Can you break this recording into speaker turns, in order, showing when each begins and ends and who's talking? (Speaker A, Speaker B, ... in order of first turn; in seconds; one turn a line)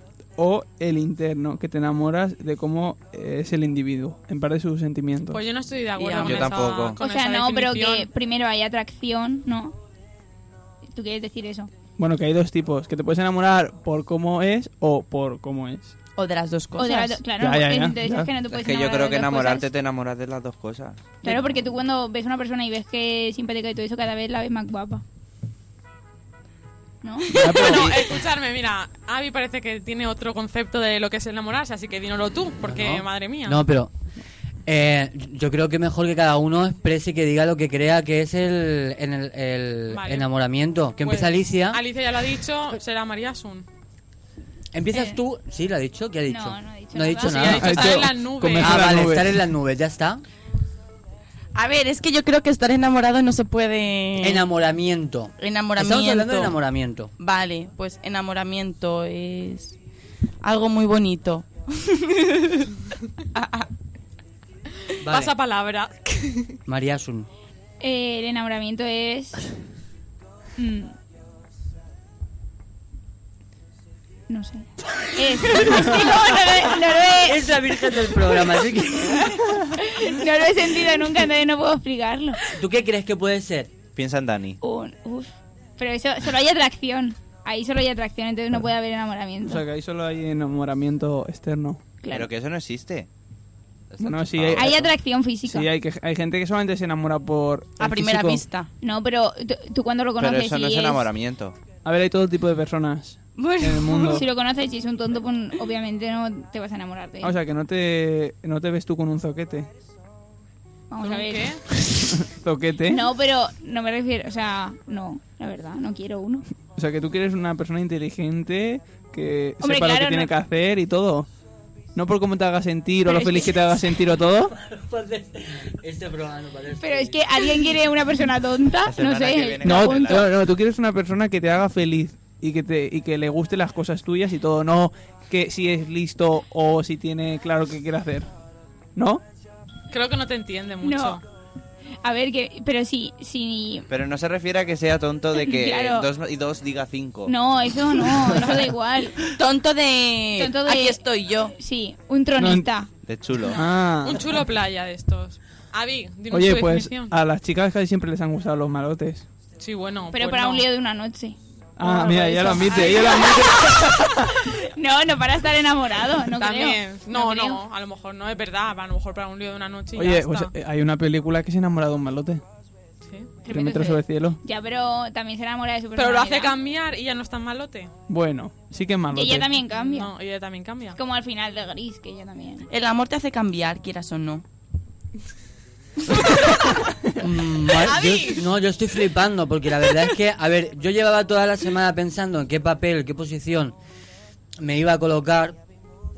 Speaker A: 0.4-5.5
Speaker B: 5.3-8.1
Speaker C: 6.0-6.7
Speaker D: 6.2-7.0
Speaker E: 7.0-9.8
Speaker E: 10.9-11.7
Speaker A: 12.0-15.9
Speaker C: 16.2-17.2
Speaker E: 16.8-19.7
Speaker A: 17.4-18.3
Speaker D: 18.4-21.1
Speaker E: 21.2-25.0
Speaker E: 27.0-27.9
Speaker A: 27.4-28.0
Speaker B: 27.6-33.6
Speaker F: 32.7-33.9
Speaker F: 34.7-41.8
Speaker B: 39.9-40.3
Speaker B: 41.0-43.7
Speaker F: 44.7-48.0
Speaker E: 44.9-45.2
Speaker E: 46.3-47.6
Speaker B: 47.2-48.9
Speaker A: 47.5-49.4
Speaker F: 48.6-50.2
Speaker C: 51.5-54.5
Speaker F: 54.2-57.1
Speaker C: 55.4-56.6
Speaker C: 57.2-59.8
Speaker C: 60.4-62.7
Speaker C: 63.4-63.7
Speaker F: 65.0-65.3
Speaker B: 65.0-66.6
Speaker F: 66.7-67.3
Speaker E: 67.8-69.4
Speaker E: 70.6-70.9
Speaker E: 74.3-77.6
Speaker F: 77.2-79.3
Speaker E: 79.0-82.4
Speaker F: 82.5-83.7
Speaker D: 84.0-84.6
Speaker E: 84.6-89.6
Speaker A: 89.5-91.8
Speaker E: 92.0-92.3
Speaker D: 92.1-93.1
Speaker D: 93.9-94.9
Speaker A: 94.0-94.9
Speaker E: 94.5-95.7
Speaker A: 95.4-98.4
Speaker C: 97.8-98.7
Speaker E: 98.8-101.1
Speaker D: 100.2-101.6
Speaker A: 101.8-104.2
Speaker C: 103.4-104.2
Speaker E: 104.1-107.3
Speaker A: 107.2-109.7
Speaker E: 110.9-111.6
Speaker B: 111.0-111.6
Speaker A: 112.1-113.0
Speaker E: 112.9-116.5
Speaker A: 116.8-121.3
Speaker E: 119.6-120.3
Speaker A: 122.0-124.5
Speaker E: 123.1-123.6
Speaker F: 124.5-127.5
Speaker E: 126.8-130.2
Speaker D: 128.8-130.4
Speaker A: 129.6-138.3
Speaker A: 139.0-139.2
Speaker B: 139.9-141.2
Speaker E: 140.8-141.2
Speaker E: 142.0-143.9
Speaker D: 143.9-147.3
Speaker E: 145.4-146.1
Speaker E: 147.3-149.2
Speaker C: 149.3-151.5
Speaker E: 150.4-152.9
Speaker A: 152.4-152.7
Speaker D: 153.1-153.6
Speaker A: 153.6-154.4
Speaker B: 154.0-157.1
Speaker A: 156.3-159.3
Speaker B: 159.6-160.7
Speaker E: 160.1-167.6
Speaker A: 161.8-164.2
Speaker B: 162.7-163.3
Speaker B: 166.4-170.5
Speaker A: 169.9-172.4
Speaker E: 173.5-176.6
Speaker A: 173.5-174.4
Speaker B: 176.0-177.9
Speaker A: 178.1-179.6
Speaker E: 179.1-180.1
Speaker B: 179.8-181.0
Speaker E: 181.0-182.7
Speaker C: 182.7-184.4
Speaker F: 187.2-193.8
Speaker B: 187.8-188.4
Speaker F: 194.6-195.6